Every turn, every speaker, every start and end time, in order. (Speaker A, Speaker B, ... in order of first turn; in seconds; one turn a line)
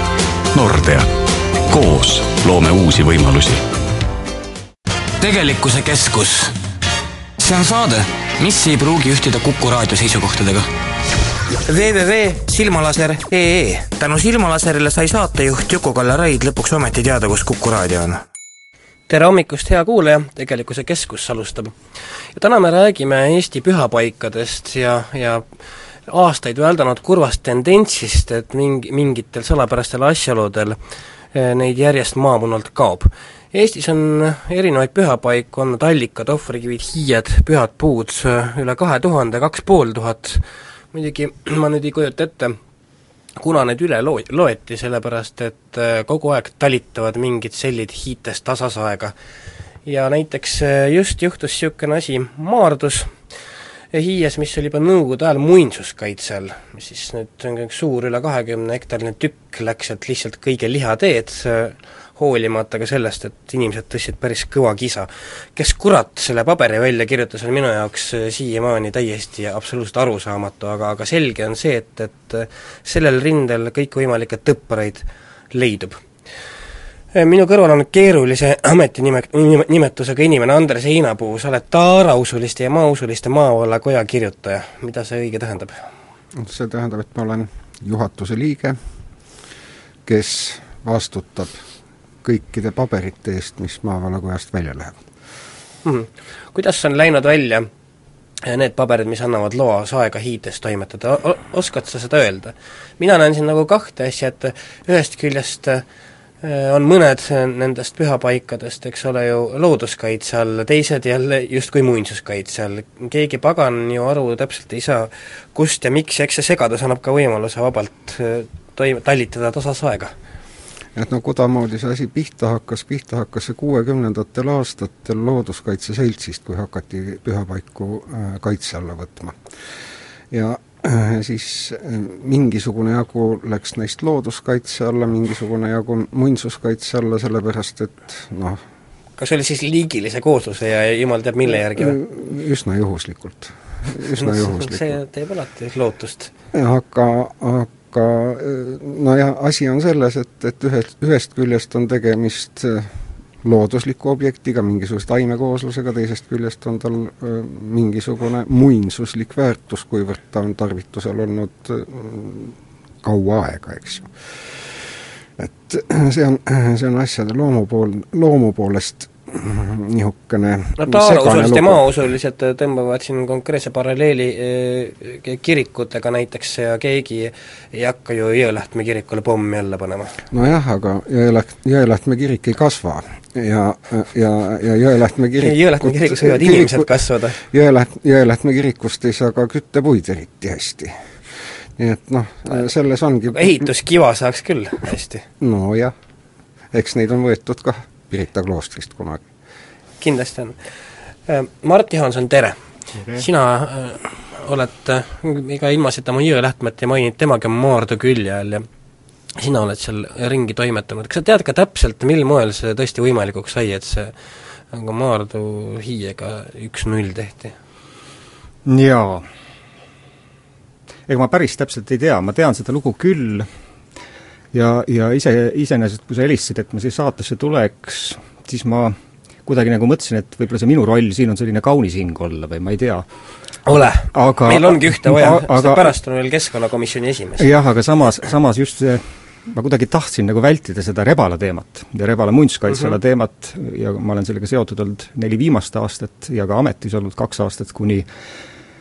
Speaker A: 0.5-1.1
Speaker A: 1.7-3.6
Speaker B: 5.2-6.6
Speaker B: 7.4-10.7
Speaker B: 11.7-18.2
Speaker C: 19.1-21.8
Speaker C: 22.4-25.5
Speaker C: 26.1-30.8
Speaker C: 31.3-42.6
Speaker C: 43.4-49.1
Speaker C: 49.9-53.3
Speaker C: 53.9-76.0
Speaker C: 77.2-85.8
Speaker D: 86.4-88.8
Speaker D: 90.1-91.5
Speaker D: 92.2-95.0
Speaker C: 95.8-97.7
Speaker C: 98.4-105.8
Speaker C: 106.4-120.1
Speaker D: 121.0-129.4
Speaker D: 130.3-138.6
Speaker C: 139.2-142.0
Speaker D: 141.5-144.9
Speaker C: 144.1-146.3
Speaker D: 146.5-152.9
Speaker D: 153.4-164.1
Speaker D: 165.4-171.8
Speaker C: 170.8-180.2
Speaker D: 180.3-190.9
Speaker C: 185.4-187.4
Speaker D: 191.8-193.7
Speaker C: 193.3-195.2
Speaker D: 195.4-195.9
Speaker D: 196.7-199.2
Speaker C: 200.0-200.6
Speaker C: 201.3-202.6
Speaker E: 202.9-203.3
Speaker C: 203.1-208.7
Speaker C: 209.4-214.1
Speaker C: 214.7-217.5
Speaker E: 218.7-219.3
Speaker E: 221.1-223.5
Speaker E: 224.5-233.1
Speaker C: 233.7-237.5
Speaker E: 233.8-235.9
Speaker E: 237.4-248.1